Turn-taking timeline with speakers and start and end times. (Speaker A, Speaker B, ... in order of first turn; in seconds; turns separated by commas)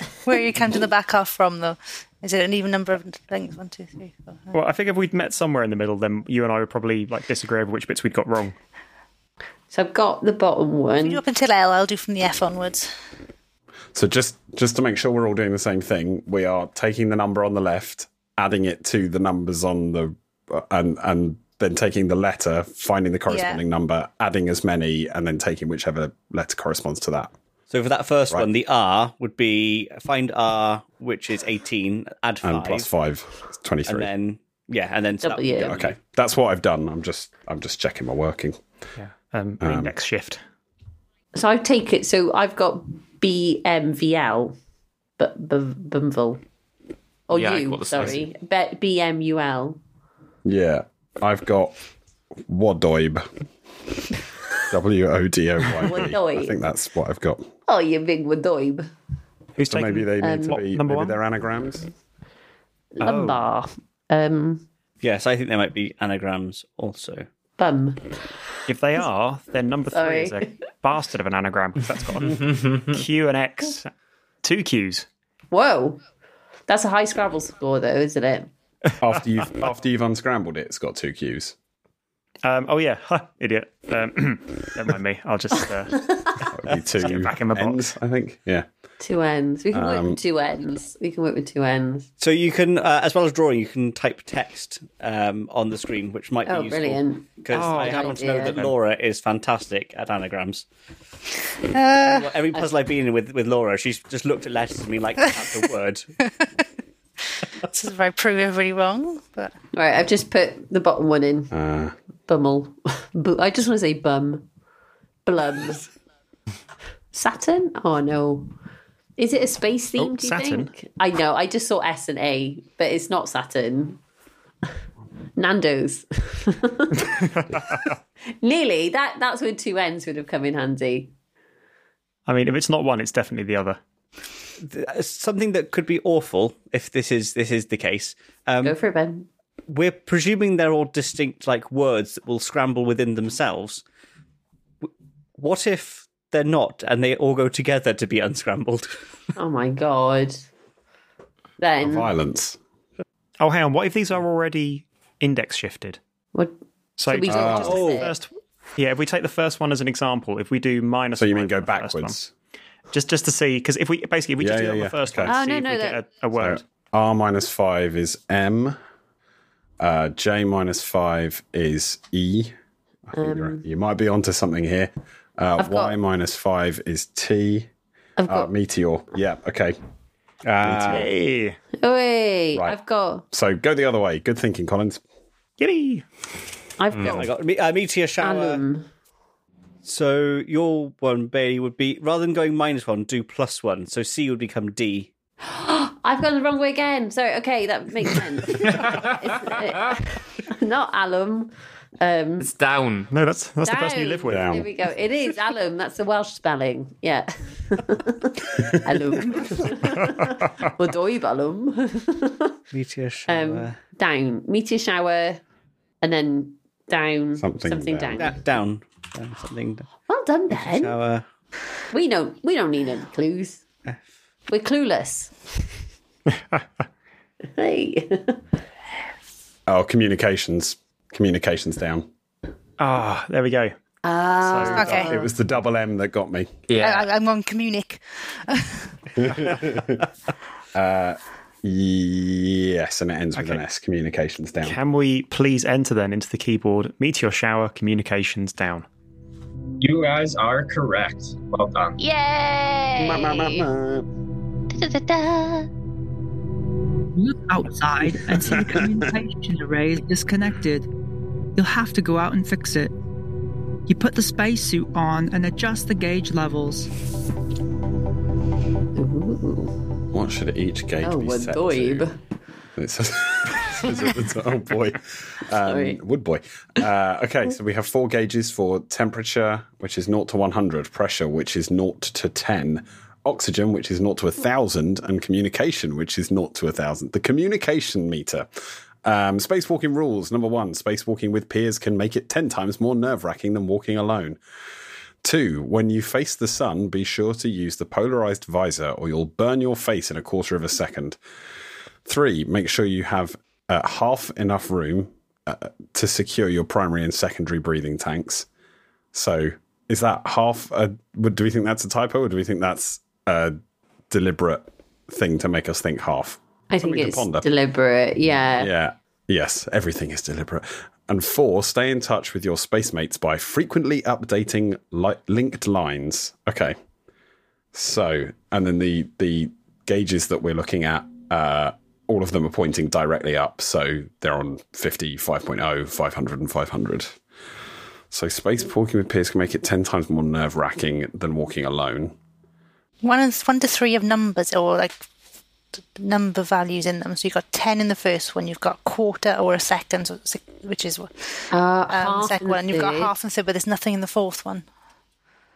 Speaker A: 0.2-4.5, Speaker B: 4.5-8.6, Speaker C: 9.7-11.2, Speaker A: 11.0-12.9, Speaker D: 13.9-27.3, Speaker A: 23.3-23.6, Speaker E: 27.7-32.9, Speaker D: 32.4-34.1, Speaker E: 33.9-35.9, Speaker C: 35.2-35.8, Speaker D: 35.6-38.6, Speaker B: 39.0-40.4, Speaker D: 39.6-39.9, Speaker C: 41.3-44.5, Speaker C: 45.2-46.4, Speaker C: 47.3-49.8, Speaker F: 47.3-48.3, Speaker D: 50.4-51.8, Speaker D: 52.5-53.3, Speaker D: 54.7-57.5, Speaker C: 55.8-56.5, Speaker C: 57.7-58.9, Speaker B: 59.6-61.2, Speaker D: 59.6-61.9, Speaker C: 60.2-60.6, Speaker C: 63.0-64.6, Speaker B: 63.0-63.4, Speaker E: 65.0-67.2, Speaker C: 67.6-68.2, Speaker B: 68.7-73.9, Speaker C: 69.9-70.5, Speaker F: 72.5-72.9, Speaker B: 74.4-75.0, Speaker C: 75.5-76.0, Speaker C: 76.7-78.5, Speaker D: 79.0-81.5, Speaker B: 82.4-87.8, Speaker C: 86.0-86.4, Speaker D: 86.5-88.7, Speaker C: 89.0-92.1, Speaker D: 89.7-90.2, Speaker E: 92.2-100.7, Speaker C: 96.5-98.6, Speaker B: 97.5-98.7, Speaker A: 101.7-102.3, Speaker E: 102.0-106.1, Speaker A: 107.7-109.5, Speaker C: 109.7-111.5, Speaker D: 111.5-111.9, Speaker C: 112.3-114.5, Speaker C: 115.2-115.9, Speaker C: 117.1-118.5, Speaker C: 119.2-124.0, Speaker B: 120.0-120.7, Speaker C: 125.3-127.2, Speaker B: 127.2-127.8, Speaker C: 128.3-131.1, Speaker B: 132.3-133.8, Speaker E: 134.6-138.8, Speaker C: 138.6-139.3, Speaker E: 139.7-143.8, Speaker E: 144.8-148.9, Speaker C: 149.3-150.4, Speaker C: 151.6-152.1, Speaker D: 151.8-152.6, Speaker B: 153.4-156.0, Speaker B: 157.0-162.1, Speaker C: 157.1-158.1, Speaker D: 157.3-157.8, Speaker E: 157.4-158.1, Speaker D: 161.2-162.3, Speaker B: 162.9-166.6, Speaker D: 164.4-165.3, Speaker C: 165.3-166.0, Speaker D: 166.3-168.8, Speaker D: 169.8-172.5, Speaker D: 173.1-177.7, Speaker C: 173.1-173.6, Speaker C: 175.6-175.9, Speaker C: 178.2-178.5, Speaker D: 178.3-179.8, Speaker E: 180.4-181.1, Speaker D: 180.6-181.1, Speaker B: 180.9-181.6, Speaker C: 181.8-183.2, Speaker D: 183.3-185.0, Speaker B: 185.6-186.0, Speaker C: 186.8-187.3, Speaker F: 186.9-187.2, Speaker E: 187.0-188.6, Speaker C: 188.2-188.9, Speaker E: 189.8-195.1, Speaker C: 195.4-202.5, Speaker F: 198.6-199.6, Speaker F: 202.4-203.1, Speaker B: 203.1-204.6, Speaker C: 203.6-212.6, Speaker D: 204.3-204.7, Speaker E: 212.7-213.8, Speaker C: 213.3-215.4, Speaker C: 216.0-218.3, Speaker D: 217.4-218.2, Speaker E: 218.2-219.9, Speaker C: 220.1-220.9, Speaker E: 220.5-221.2, Speaker C: 221.9-223.6, Speaker C: 224.5-225.3, Speaker C: 227.5-228.4, Speaker D: 229.7-232.1, Speaker B: 232.8-233.7, Speaker C: 234.0-235.3, Speaker B: 234.4-235.0, Speaker A: 234.7-235.1, Speaker D: 234.9-236.5, Speaker F: 236.7-237.1, Speaker A: 236.8-239.0, Speaker D: 239.2-240.1, Speaker D: 240.7-244.8, Speaker B: 243.3-243.6, Speaker B: 244.6-248.8, Speaker G: 249.8-252.0, Speaker C: 252.0-253.7, Speaker D: 252.9-254.1, Speaker C: 254.7-255.7, Speaker H: 257.1-260.9, Speaker D: 258.4-258.9, Speaker H: 261.6-262.9, Speaker H: 263.9-266.9, Speaker C: 268.9-269.7, Speaker D: 270.1-272.1, Speaker C: 271.0-272.1, Speaker D: 272.8-288.5, Speaker C: 275.6-276.0, Speaker D: 289.0-294.4, Speaker D: 295.2-301.2, Speaker D: 302.0-308.5, Speaker D: 309.1-313.6, Speaker D: 314.1-317.5, Speaker C: 316.7-318.7, Speaker D: 318.6-326.8, Speaker D: 327.7-337.2, Speaker D: 338.1-342.1, Speaker A: 343.0-345.1, Speaker A: 345.8-354.6, Speaker C: 351.5-353.1